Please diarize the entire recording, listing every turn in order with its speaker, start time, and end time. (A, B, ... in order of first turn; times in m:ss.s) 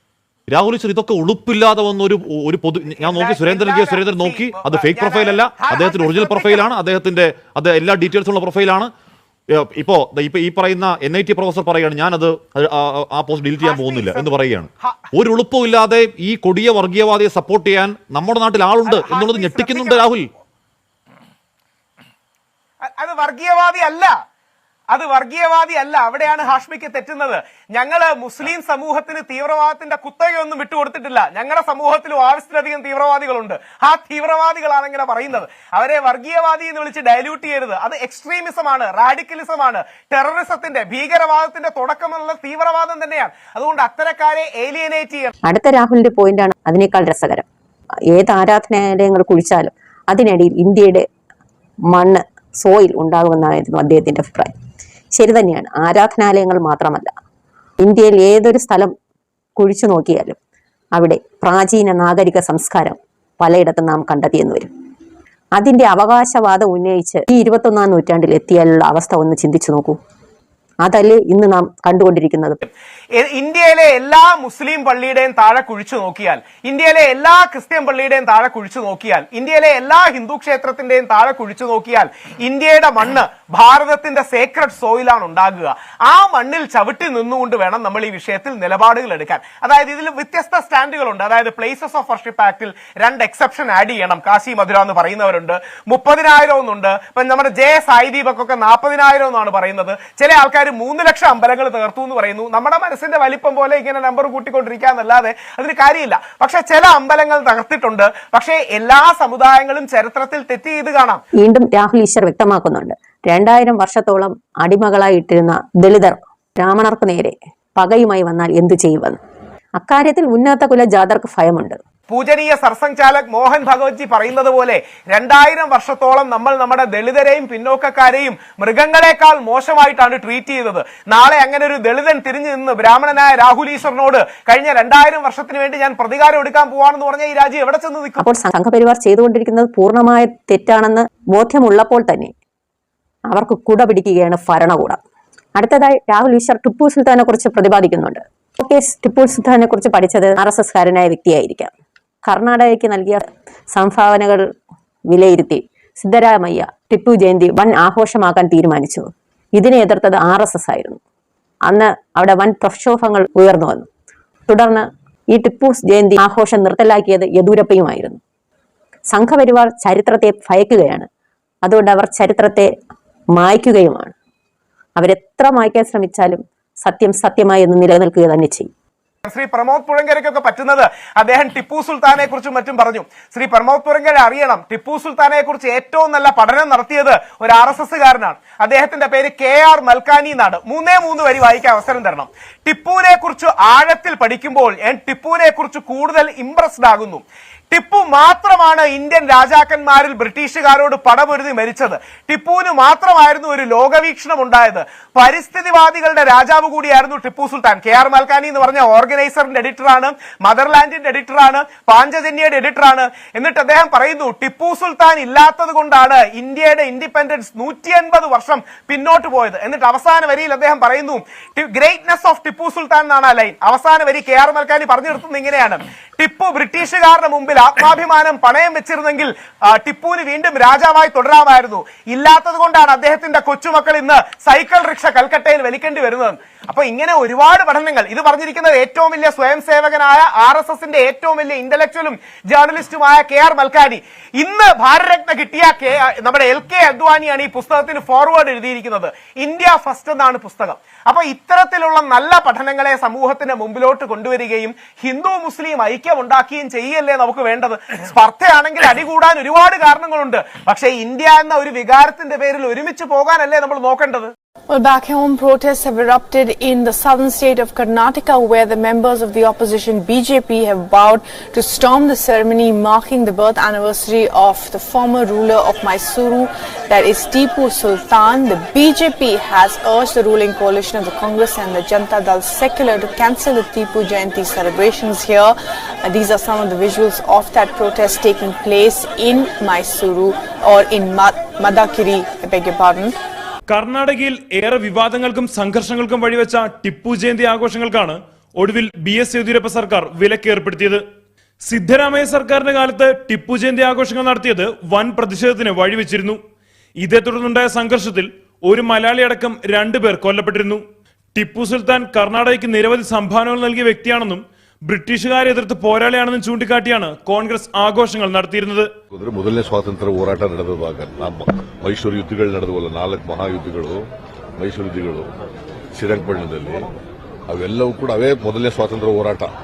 0:00.5-0:08.9 A
0:03.0-0:06.7 B
0:09.6-0:20.3 A
0:13.6-0:14.3 B
0:18.9-0:20.1 B
0:22.8-0:24.1 B
0:24.9-0:45.3 B
0:45.4-0:47.5 C
0:48.1-0:51.0 C
0:51.9-0:54.5 C
0:55.2-0:57.1 C
0:57.8-0:58.9 C
0:59.6-1:00.4 C
1:01.0-1:04.7 C
1:05.6-1:10.0 C
1:10.8-1:12.6 C
1:13.1-1:51.2 B
1:51.4-1:59.2 C
1:59.8-2:01.8 C
2:02.1-2:18.2 B
2:18.2-2:22.3 C
2:23.3-2:25.0 C
2:25.6-2:31.7 C
2:32.2-2:34.4 C
2:35.1-2:41.0 C
2:41.7-2:43.9 C
2:44.5-2:48.2 C
2:49.1-2:51.1 C
2:51.6-2:52.7 C
2:53.4-2:54.2 C
2:55.0-2:58.7 C
2:59.2-4:24.3 B
4:24.7-4:53.1 D
4:53.7-5:01.0 E
5:01.6-5:06.4 E
5:07.0-5:10.8 E
5:11.3-5:18.9 E
5:19.1-5:25.4 F
5:25.9-5:26.9 F
5:27.5-5:29.5 F